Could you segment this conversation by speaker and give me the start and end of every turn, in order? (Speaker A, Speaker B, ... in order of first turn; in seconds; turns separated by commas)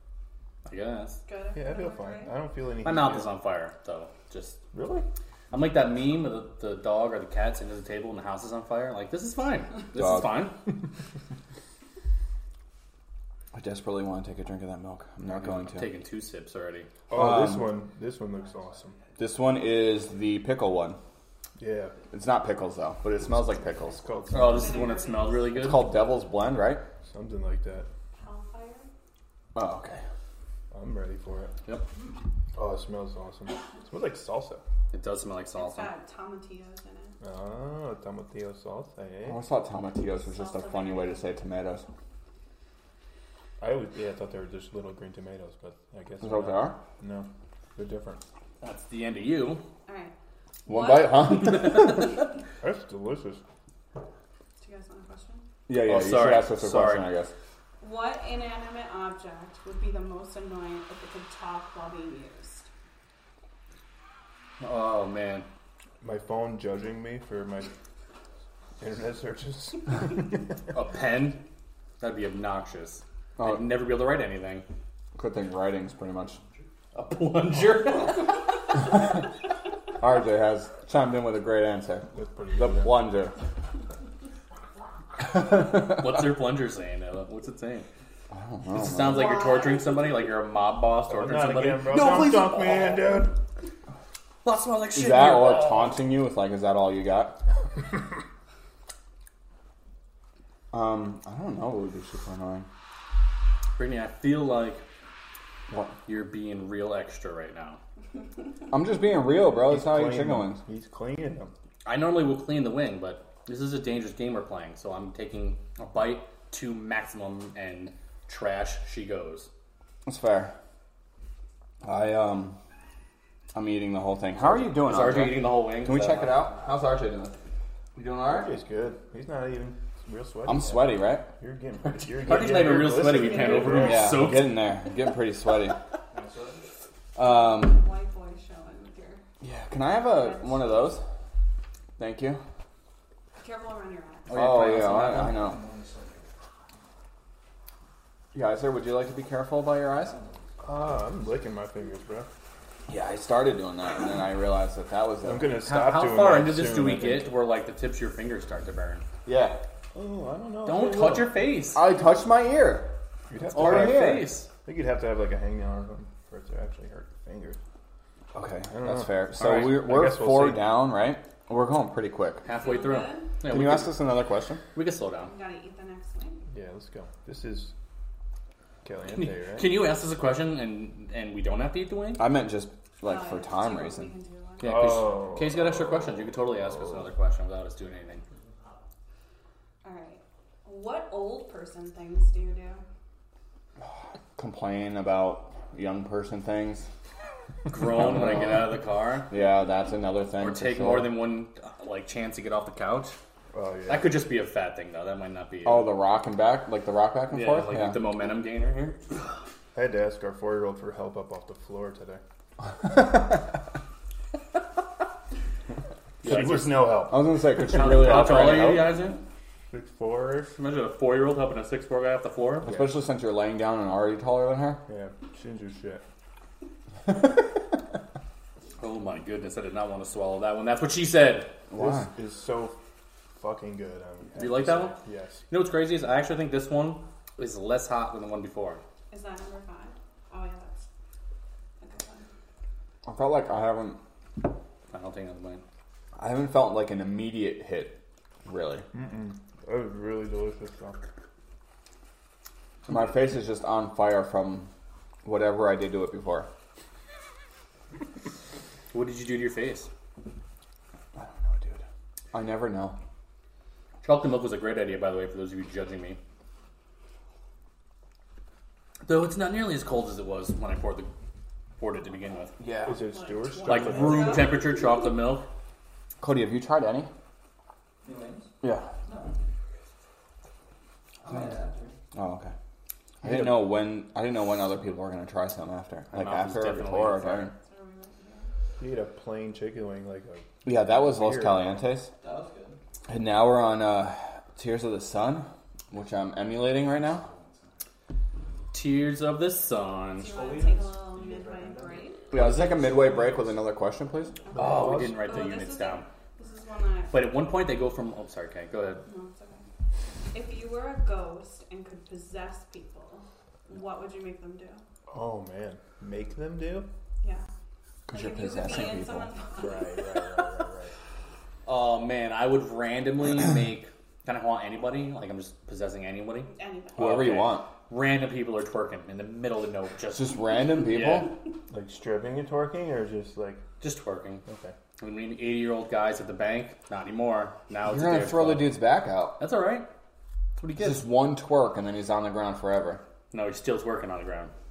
Speaker A: 0.7-1.2, Speaker B: 1.3-2.3, Speaker C: 1.6-3.4, Speaker A: 2.8-4.6, Speaker C: 4.7-5.1, Speaker A: 5.5-10.6, Speaker D: 9.9-10.5, Speaker D: 13.5-15.9, Speaker A: 15.6-16.9, Speaker C: 17.1-19.0, Speaker D: 17.1-17.8, Speaker D: 19.2-21.0, Speaker C: 21.6-21.9, Speaker D: 22.1-24.0, Speaker C: 23.9-25.0, Speaker B: 24.3-25.7, Speaker A: 24.3-25.9, Speaker D: 25.5-26.8, Speaker C: 27.1-27.9, Speaker B: 28.2-28.9, Speaker D: 29.6-30.0, Speaker C: 30.7-31.5, Speaker C: 32.5-34.6, Speaker A: 34.9-35.9, Speaker B: 35.5-37.2, Speaker C: 37.2-39.4, Speaker D: 39.2-41.9, Speaker B: 40.2-41.3, Speaker C: 43.6-48.2, Speaker D: 46.2-46.8, Speaker A: 48.6-49.6, Speaker B: 49.9-50.1, Speaker B: 50.7-51.8, Speaker D: 50.7-52.2, Speaker C: 52.6-53.4, Speaker B: 54.6-55.5, Speaker D: 55.7-57.3, Speaker A: 55.7-57.1, Speaker B: 57.8-62.7, Speaker A: 64.6-65.5, Speaker C: 66.0-67.7, Speaker C: 68.8-70.5, Speaker A: 70.7-71.4, Speaker A: 72.0-74.7, Speaker D: 73.4-73.8, Speaker D: 75.2-76.4, Speaker A: 77.0-78.6, Speaker D: 80.0-83.3, Speaker C: 82.1-83.0, Speaker A: 85.4-87.9, Speaker D: 88.3-89.4, Speaker A: 88.7-93.0, Speaker B: 89.1-90.1, Speaker C: 91.1-93.4, Speaker A: 94.4-95.9, Speaker D: 94.9-97.4, Speaker D: 100.7-102.7, Speaker A: 103.8-104.8, Speaker A: 106.1-107.8, Speaker D: 108.7-110.6, Speaker C: 109.7-111.5, Speaker A: 111.8-119.5, Speaker D: 120.1-120.5, Speaker D: 121.8-122.6, Speaker D: 123.5-127.3, Speaker A: 124.8-126.3, Speaker D: 128.0-128.6, Speaker C: 128.2-134.2, Speaker D: 130.5-131.3, Speaker A: 131.8-134.6, Speaker B: 132.9-133.8, Speaker D: 133.8-135.8, Speaker E: 136.1-136.6, Speaker D: 137.2-137.8, Speaker B: 137.2-139.2, Speaker D: 139.4-141.0, Speaker B: 140.1-141.0, Speaker D: 142.0-142.4, Speaker B: 143.4-144.4, Speaker A: 144.3-145.3, Speaker D: 144.3-145.6, Speaker E: 145.2-146.2, Speaker D: 148.3-150.2, Speaker C: 150.6-152.3, Speaker D: 152.9-155.6, Speaker C: 155.2-157.3, Speaker A: 155.6-159.1, Speaker D: 159.3-159.6, Speaker C: 159.9-161.3, Speaker A: 160.7-161.8, Speaker D: 161.8-162.9, Speaker C: 163.3-167.6, Speaker A: 163.5-164.5, Speaker D: 163.6-164.3, Speaker D: 168.3-172.5, Speaker C: 168.7-170.7, Speaker A: 169.4-169.8, Speaker A: 172.4-174.0, Speaker B: 172.5-173.3, Speaker D: 173.5-174.6, Speaker A: 174.8-175.3, Speaker B: 175.2-176.4, Speaker C: 176.5-177.7, Speaker C: 178.8-179.7, Speaker A: 179.1-182.3, Speaker D: 182.2-184.1, Speaker B: 183.0-185.0, Speaker A: 184.6-188.2, Speaker C: 184.6-185.7, Speaker B: 189.8-192.8, Speaker D: 194.4-196.9, Speaker A: 197.7-199.3, Speaker D: 198.0-198.5, Speaker D: 199.3-201.2, Speaker A: 200.4-203.2, Speaker C: 203.5-204.2, Speaker A: 203.9-205.9, Speaker D: 205.7-208.0, Speaker A: 207.3-209.0, Speaker C: 209.7-212.2, Speaker A: 216.2-217.1, Speaker C: 216.2-217.2, Speaker D: 217.0-219.0, Speaker A: 217.6-219.2, Speaker C: 219.7-220.5, Speaker A: 220.6-222.7, Speaker D: 222.6-224.8, Speaker C: 224.9-226.0, Speaker A: 228.8-231.5, Speaker D: 231.7-232.1, Speaker C: 231.8-232.8, Speaker C: 233.3-235.4, Speaker A: 234.4-235.0, Speaker A: 235.5-238.8, Speaker B: 239.1-240.8, Speaker B: 241.8-242.3, Speaker D: 243.1-244.0, Speaker A: 244.9-245.6, Speaker D: 246.2-248.9, Speaker C: 248.9-251.0, Speaker D: 252.9-254.7, Speaker D: 255.2-256.5, Speaker A: 258.9-259.9, Speaker D: 261.2-263.0, Speaker A: 264.0-266.2, Speaker A: 269.1-271.1, Speaker A: 271.8-272.5, Speaker C: 272.8-274.6, Speaker B: 273.0-275.1, Speaker A: 273.7-275.5, Speaker D: 276.2-277.1, Speaker E: 278.0-278.5, Speaker D: 278.6-278.9, Speaker E: 281.2-281.9, Speaker D: 282.1-282.5, Speaker D: 283.2-287.5, Speaker A: 283.3-283.6, Speaker A: 286.1-287.5, Speaker B: 287.6-288.5, Speaker C: 288.8-291.8, Speaker D: 290.6-292.1, Speaker E: 292.2-292.8, Speaker D: 293.1-297.3, Speaker E: 297.1-297.7, Speaker A: 298.7-300.3, Speaker B: 300.2-302.2, Speaker E: 300.2-303.5, Speaker D: 302.3-304.4, Speaker B: 304.5-307.3, Speaker C: 304.5-305.3, Speaker A: 304.6-306.1, Speaker A: 307.1-309.0, Speaker B: 309.1-309.7, Speaker B: 310.3-314.9, Speaker C: 315.1-316.9, Speaker B: 317.2-317.5, Speaker D: 318.1-319.3, Speaker B: 318.1-320.4, Speaker C: 319.6-320.9, Speaker A: 321.7-331.3, Speaker B: 326.5-327.3, Speaker D: 327.0-327.7, Speaker D: 330.1-331.3, Speaker C: 331.7-333.6, Speaker A: 333.8-334.4, Speaker C: 334.5-334.7, Speaker A: 335.0-338.8, Speaker D: 337.9-339.4, Speaker A: 339.4-339.9, Speaker A: 340.6-341.1, Speaker D: 340.8-343.0, Speaker A: 343.3-344.5